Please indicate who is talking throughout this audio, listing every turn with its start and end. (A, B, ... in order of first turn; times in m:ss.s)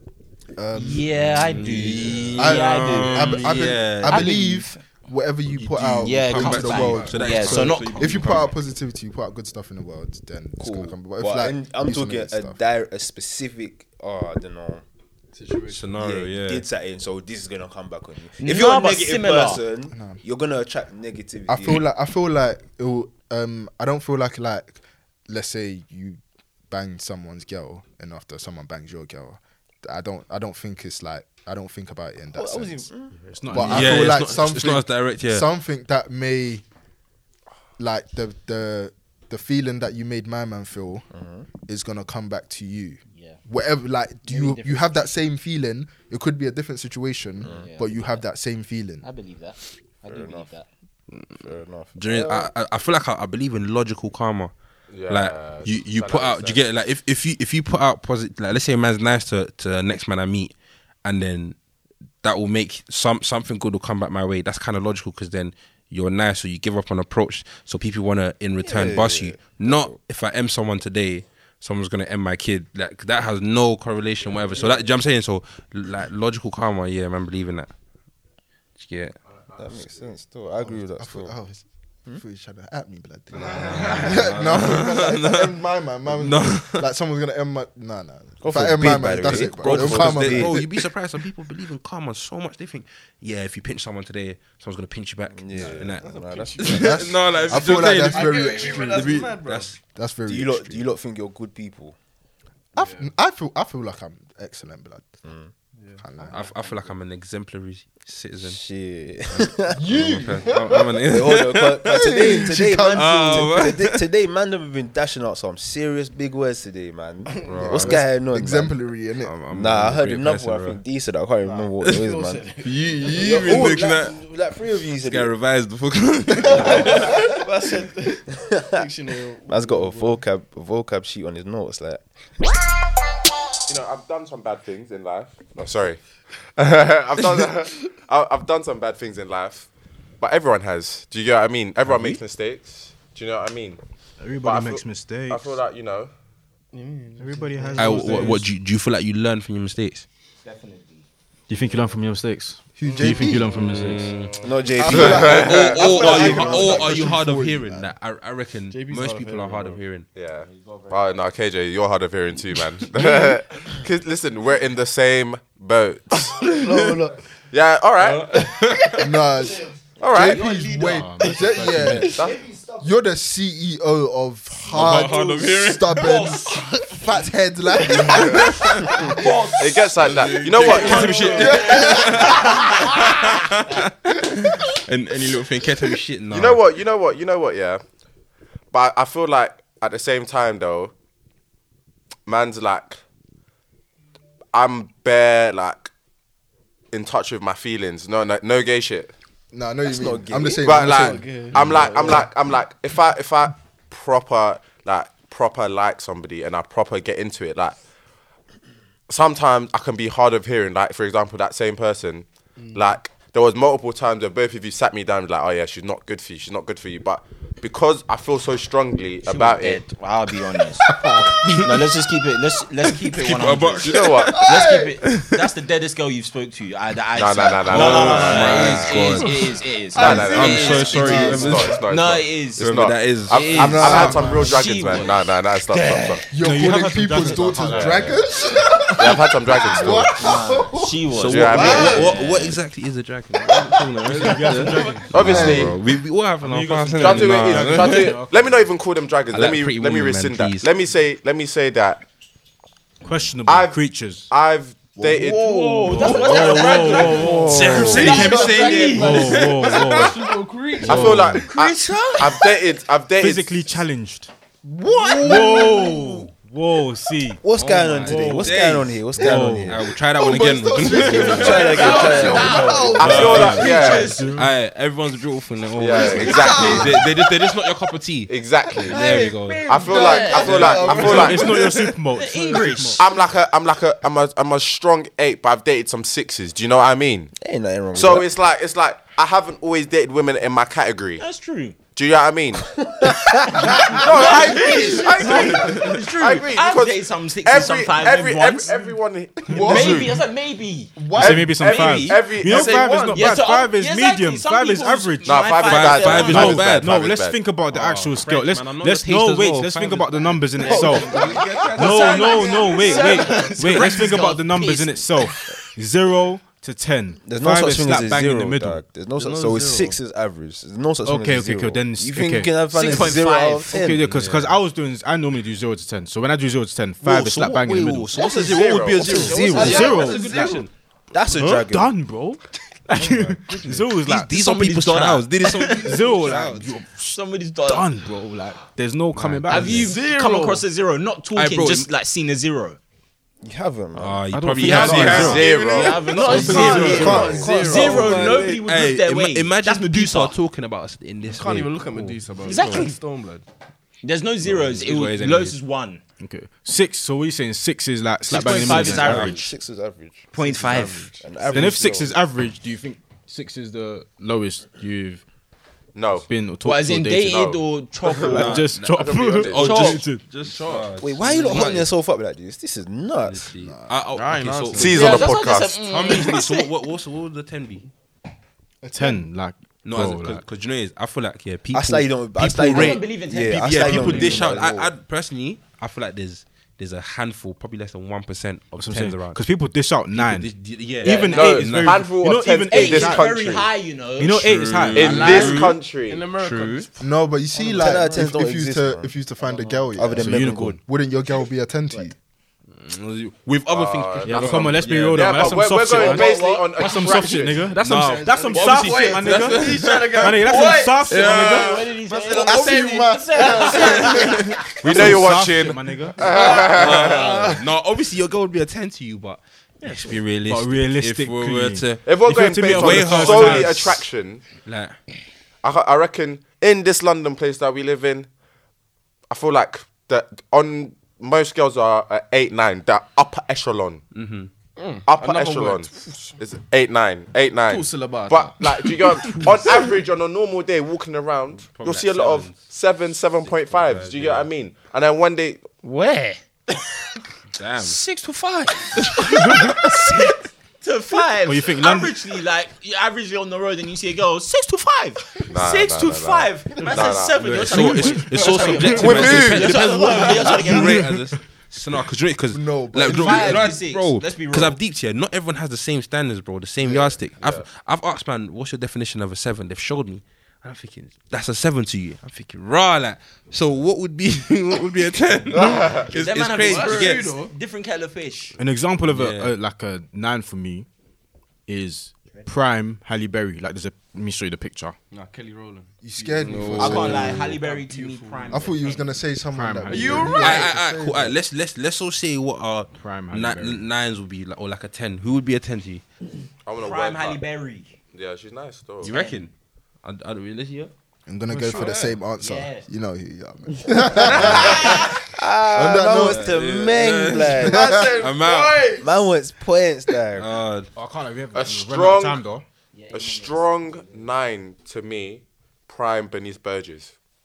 0:00.6-0:01.5 A
0:00.7-0:04.8 B
0:01.3-0:04.3 C
0:02.3-0:12.6 A
0:05.6-0:08.6 C
0:06.0-0:08.2 B
0:10.6-0:14.8 D
0:15.3-0:15.9 E
0:15.7-0:16.7 C
0:15.9-0:21.9 D
0:18.4-0:19.6 B
0:19.9-0:20.2 A
0:21.5-0:32.9 A
0:32.3-0:33.2 D
0:33.3-0:34.2 F
0:33.5-0:36.6 A
0:33.6-0:35.5 C
0:37.8-0:49.0 A
0:41.1-0:41.5 D
0:44.2-0:45.1 B
0:47.4-0:47.7 D
0:47.4-0:48.2 B
0:49.0-0:50.7 B
0:50.1-0:50.5 D
0:51.2-0:52.5 D
0:52.0-0:54.5 C
0:54.9-0:56.6 G
0:55.1-1:00.5 C
1:01.0-1:01.6 C
1:02.2-1:17.7 C
1:08.6-1:10.0 D
1:14.3-1:14.7 E
1:18.8-1:19.2 C
1:19.6-1:21.4 D
1:19.6-1:20.1 E
1:20.7-1:30.7 A
1:23.3-1:25.5 C
1:23.5-1:23.9 E
1:26.1-1:26.9 C
1:28.4-1:30.6 D
1:29.3-1:39.8 C
1:35.3-1:37.0 D
1:35.6-1:39.8 E
1:36.8-1:39.3 A
1:40.0-1:40.7 A
1:40.3-1:42.0 D
1:42.8-1:43.1 E
1:42.8-1:45.1 A
1:45.2-1:45.5 D
1:45.7-1:46.8 E
1:46.0-1:46.4 A
1:46.3-1:48.6 C
1:48.4-1:49.9 D
1:49.3-1:52.0 C
1:49.8-1:51.0 A
1:51.0-1:58.8 D
1:51.9-1:53.4 A
1:52.9-1:54.1 C
1:57.3-1:57.9 E
1:57.4-1:58.0 C
1:57.8-1:59.4 A
1:59.2-2:00.8 C
1:59.5-2:02.5 D
2:01.4-2:03.8 E
2:02.6-2:04.2 C
2:03.0-2:05.4 D
2:05.0-2:07.3 C
2:06.4-2:10.2 E
2:06.5-2:07.4 D
2:06.6-2:07.0 B
2:08.3-2:08.8 D
2:09.5-2:12.0 D
2:13.7-2:16.0 G
2:16.6-2:19.7 G
2:20.2-2:23.8 G
2:21.9-2:22.2 C
2:24.2-2:25.6 F
2:24.4-2:26.1 G
2:26.7-2:28.4 E
2:27.2-2:28.5 F
2:27.8-2:30.0 C
2:30.4-2:31.1 B
2:31.5-2:34.2 F
2:32.8-2:33.5 A
2:33.2-2:40.1 C
2:34.2-2:36.0 G
2:34.4-2:37.2 D
2:34.8-2:37.9 A
2:38.7-2:39.8 E
2:40.2-2:46.4 G
2:40.4-2:41.0 B
2:46.4-2:46.8 C
2:46.6-2:47.2 E
2:47.5-2:48.5 G
2:48.0-2:49.3 C
2:49.0-2:52.2 A
2:49.7-2:51.0 D
2:50.0-2:50.5 G
2:50.8-2:52.2 F
2:52.1-2:52.9 D
2:52.1-2:52.4 G
2:52.8-2:59.5 A
2:54.7-2:56.4 C
2:56.0-2:56.7 B
2:58.0-2:59.1 C
2:58.1-2:58.4 G
2:59.2-2:59.9 B
2:59.6-3:01.6 G
2:59.9-3:06.6 C
3:00.4-3:02.4 E
3:00.6-3:03.0 B
3:00.7-3:01.6 D
3:01.5-3:01.9 A
3:06.3-3:07.8 G
3:08.7-3:10.9 G
3:12.3-3:13.0 G
3:14.5-3:15.9 G
3:16.9-3:19.1 G
3:19.5-3:21.2 A
3:19.9-3:20.6 D
3:20.6-3:27.8 G
3:20.7-3:22.3 E
3:29.1-3:39.8 G
3:32.6-3:32.9 E
3:39.3-3:40.9 B
3:40.8-3:41.4 A
3:41.4-3:41.9 C
3:41.6-3:52.7 B
3:42.8-3:45.3 C
3:43.9-3:44.3 G
3:44.3-3:45.0 A
3:47.2-3:49.3 G
3:47.7-3:51.8 C
3:49.9-3:56.2 G
3:50.0-3:51.4 E
3:51.0-3:51.5 D
3:52.6-3:54.2 C
3:53.5-3:56.2 B
3:53.5-3:54.5 A
3:56.3-4:02.0 A
3:56.4-3:58.2 F
3:57.6-3:58.1 G
3:59.0-4:00.2 G
4:00.1-4:02.6 B
4:01.1-4:08.2 C
4:01.2-4:02.2 G
4:01.7-4:02.1 E
4:04.1-4:05.6 F
4:04.3-4:05.1 E
4:05.1-4:05.8 G
4:05.2-4:05.7 A
4:06.4-4:08.3 F
4:07.0-4:12.0 G
4:09.3-4:10.7 C
4:13.0-4:14.3 F
4:13.5-4:16.4 G
4:15.0-4:15.4 A
4:15.2-4:19.4 B
4:15.6-4:21.4 E
4:16.0-4:20.2 F
4:17.2-4:20.1 C
4:17.5-4:18.9 D
4:20.8-4:23.7 G
4:20.8-4:21.5 F
4:21.4-4:22.5 B
4:23.2-4:24.3 F
4:24.6-4:26.3 D
4:25.1-4:27.4 F
4:25.4-4:25.7 B
4:27.4-4:29.9 D
4:27.5-4:39.7 C
4:28.0-4:28.6 F
4:29.2-4:29.8 F
4:30.1-4:32.9 A
4:30.9-4:33.5 D
4:31.4-4:33.6 E
4:31.7-4:34.4 B
4:33.0-4:34.2 G
4:33.2-4:34.5 F
4:35.8-4:37.0 G
4:36.2-4:37.0 E
4:36.3-4:36.8 B
4:38.3-4:39.0 G
4:38.9-4:41.5 E
4:39.3-4:41.3 B
4:39.7-4:41.6 G
4:40.3-4:42.0 C
4:41.0-4:43.1 F
4:42.1-4:43.0 B
4:43.0-4:47.3 G
4:47.4-4:48.3 D
4:47.9-4:51.2 G
4:51.2-4:51.8 B
4:51.9-4:52.7 G
4:52.7-4:55.0 D
4:53.6-4:58.7 B
4:53.8-5:00.2 G
4:54.2-4:55.4 A
4:55.3-4:56.0 C
4:59.5-5:00.2 A
4:59.6-5:01.0 B
5:01.0-5:01.6 A
5:01.2-5:05.4 F
5:01.2-5:02.9 G
5:01.5-5:02.2 B
5:02.4-5:03.4 E
5:03.1-5:06.6 B
5:05.2-5:07.4 G
5:05.6-5:07.0 C
5:06.2-5:18.9 F
5:07.7-5:14.2 C
5:10.6-5:13.6 E
5:10.6-5:15.1 B
5:10.8-5:11.6 D
5:17.2-5:24.1 D
5:19.2-5:20.0 E
5:21.0-5:23.0 F
5:22.7-5:23.7 B
5:23.7-5:28.3 F
5:24.0-5:24.6 C
5:27.0-5:30.7 C
5:28.1-5:29.4 G
5:28.4-5:30.6 B
5:29.0-5:30.6 D
5:29.3-5:30.6 F
5:29.6-5:30.6 E
5:31.1-5:31.9 D
5:31.3-5:34.6 F
5:32.9-5:33.2 B
5:33.0-5:33.6 D
5:33.6-5:36.7 C
5:34.2-5:35.9 B
5:35.5-5:39.9 F
5:37.1-5:37.9 B
5:39.1-5:39.9 C
5:39.5-5:42.8 B
5:39.7-5:40.6 E
5:41.4-5:41.9 C
5:43.4-5:44.3 D
5:44.0-5:52.8 C
5:44.3-5:45.5 F
5:44.6-5:50.4 B
5:44.7-5:46.6 G
5:44.8-5:48.6 E
5:46.2-5:47.4 F
5:46.4-5:48.4 D
5:51.3-5:53.4 E
5:52.4-5:53.0 B
5:54.0-5:56.0 B
5:54.4-5:55.6 C
5:56.2-5:59.3 F
5:58.3-5:59.4 B
5:58.3-5:59.5 C
5:58.4-6:02.1 D
6:00.3-6:01.2 B
6:00.6-6:02.1 E
6:01.5-6:05.2 F
6:06.0-6:06.3 G
6:06.3-6:07.5 F
6:06.6-6:08.7 B
6:07.2-6:09.8 G
6:08.2-6:10.3 F
6:08.2-6:11.9 C
6:09.6-6:10.0 D
6:09.6-6:10.0 B
6:10.3-6:11.7 E
6:11.0-6:13.5 D
6:13.2-6:15.3 C
6:13.6-6:14.0 A
6:14.1-6:15.3 E
6:14.8-6:15.8 G
6:14.9-6:16.7 B
6:15.9-6:17.9 C
6:18.8-6:19.3 A
6:19.0-6:20.4 F
6:19.8-6:29.4 C
6:21.7-6:24.9 D
6:22.7-6:24.6 B
6:28.8-6:33.5 F
6:30.1-6:32.0 C
6:31.0-6:33.7 G
6:32.7-6:34.4 B
6:34.2-6:35.7 F
6:34.3-6:35.8 C
6:35.0-6:36.3 G
6:35.1-6:37.1 E
6:36.4-6:36.8 C
6:37.0-6:42.2 A
6:37.6-6:38.0 E
6:37.8-6:39.2 D
6:39.4-6:39.9 E
6:39.9-6:40.8 D
6:40.1-6:40.8 F
6:42.8-6:46.2 C
6:43.7-6:47.6 G
6:44.2-6:51.9 F
6:45.9-6:54.4 E
6:47.8-6:51.6 C
6:51.2-6:54.6 B
6:52.4-6:54.5 A
6:53.9-6:54.6 C
6:54.8-6:57.5 G
6:54.9-6:56.2 F
6:56.2-6:57.7 E
6:56.5-7:04.0 C
6:59.8-7:00.2 B
7:00.5-7:04.0 F
7:02.0-7:04.4 G
7:04.6-7:05.0 C
7:05.6-7:08.3 G
7:09.3-7:14.0 G
7:14.2-7:14.5 C
7:14.8-7:16.3 E
7:15.1-7:25.6 G
7:17.7-7:19.8 E
7:21.6-7:22.6 C
7:23.4-7:24.5 C
7:25.8-7:26.8 B
7:27.6-7:28.0 C
7:27.8-7:41.1 B
7:29.3-7:29.8 F
7:31.4-7:32.2 F
7:35.5-7:38.0 G
7:37.4-7:57.3 C
7:37.8-7:39.4 F
7:38.8-7:39.9 G
7:40.6-7:41.2 F
7:42.5-7:43.8 A
7:43.1-7:44.8 B
7:46.8-7:47.2 A
7:55.5-7:56.1 G
7:56.1-7:58.6 B
7:56.6-7:57.5 E
7:58.6-8:00.9 F
7:59.0-7:59.5 C
8:01.7-8:05.0 F
8:05.1-8:08.7 E
8:06.0-8:07.6 A
8:06.4-8:07.4 C
8:06.8-8:09.1 B
8:08.5-8:11.4 A
8:09.5-8:10.5 F
8:09.8-8:10.7 E
8:10.3-8:16.0 C
8:13.0-8:13.8 F
8:16.6-8:17.4 G
8:16.8-8:18.0 B
8:18.1-8:19.1 G
8:19.0-8:19.5 C
8:19.0-8:19.4 B
8:20.0-8:20.9 C
8:21.3-8:25.2 A
8:21.5-8:22.2 E
8:22.4-8:22.9 B
8:24.2-8:25.1 B
8:24.4-8:24.7 C
8:25.2-8:27.8 D
8:25.7-8:26.5 A
8:26.2-8:28.9 C
8:27.6-8:29.3 E
8:27.7-8:28.1 A
8:29.0-8:30.5 D
8:30.4-8:30.9 C
8:31.0-8:32.6 F
8:31.5-8:32.4 G
8:32.9-8:34.3 B
8:33.1-8:37.1 G